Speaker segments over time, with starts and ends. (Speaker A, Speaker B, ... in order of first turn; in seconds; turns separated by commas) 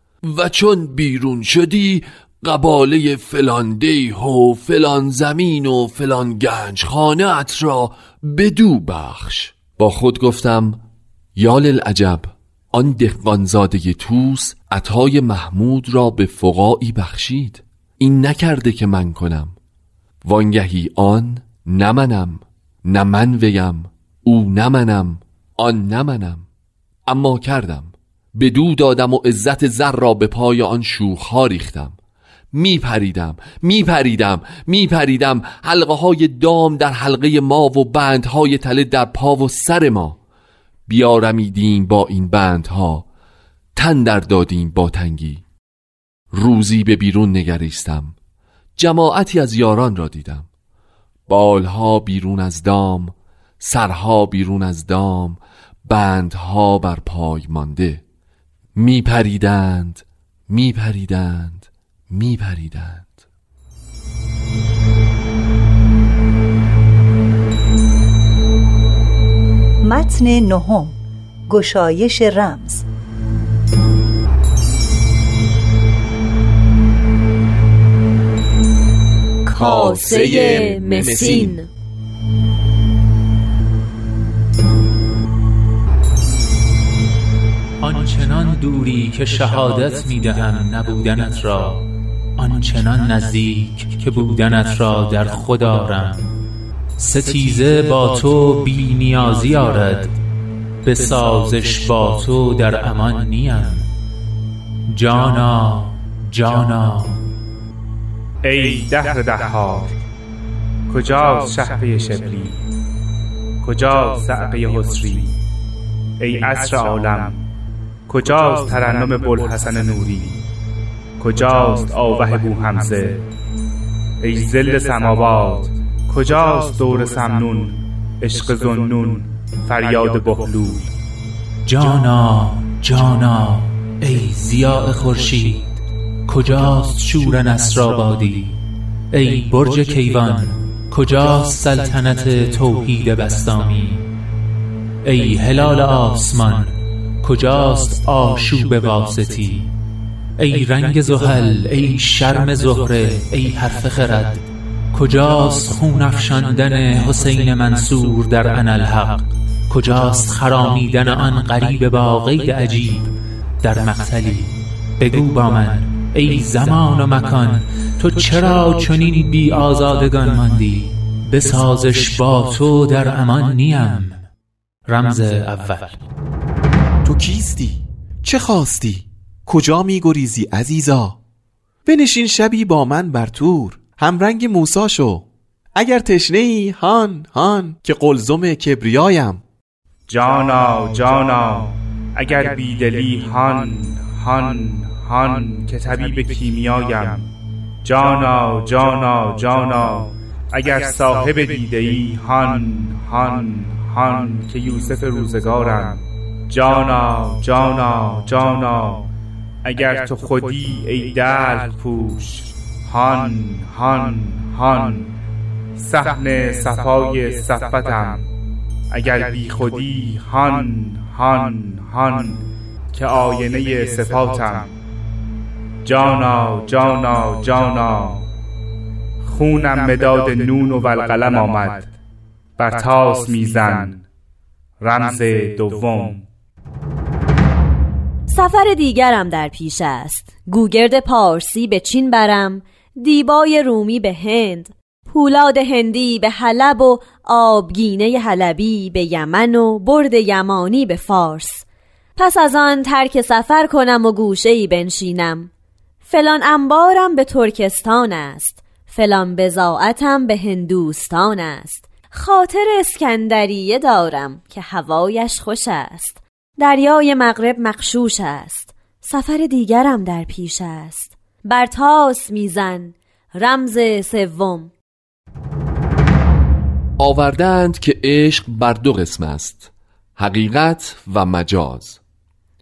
Speaker A: 0.2-10.8, Speaker A: 11.3-19.6, Speaker A: 20.2-26.4, Speaker A: 27.1-32.0, Speaker A: 32.5-40.2, Speaker A: 40.9-43.1, Speaker A: 43.8-45.4, Speaker A: 46.3-48.1, Speaker A: 48.8-50.5, Speaker A: 51.3-58.0, Speaker A: 58.7-63.1, Speaker B: 69.8-72.8, Speaker C: 79.5-81.7, Speaker D: 79.5-81.6, Speaker E: 87.8-91.8, Speaker E: 92.4-96.3, Speaker E: 97.0-100.2, Speaker E: 100.8-103.9, Speaker E: 104.9-107.2, Speaker F: 108.4-109.9, Speaker F: 110.9-112.6, Speaker F: 113.6-115.4, Speaker F: 116.2-117.4, Speaker F: 118.1-120.4, Speaker F: 121.2-123.2, Speaker F: 124.2-130.9, Speaker E: 131.6-138.6, Speaker E: 139.1-144.1, Speaker E: 145.0-149.7, Speaker E: 150.4-174.2, Speaker E: 174.9-176.0, Speaker D: 177.0-181.2, Speaker D: 181.8-189.4, Speaker F: 190.1-209.1, Speaker F: 209.6-215.1, Speaker F: 215.8-218.2, Speaker F: 218.9-224.7, Speaker F: 225.8-228.2, Speaker F: 229.2-231.9, Speaker F: 232.6-234.0, Speaker F: 234.8-236.2, Speaker C: 238.3-251.7, Speaker C: 252.2-255.5, Speaker C: 256.0-274.7, Speaker A: 277.0-282.0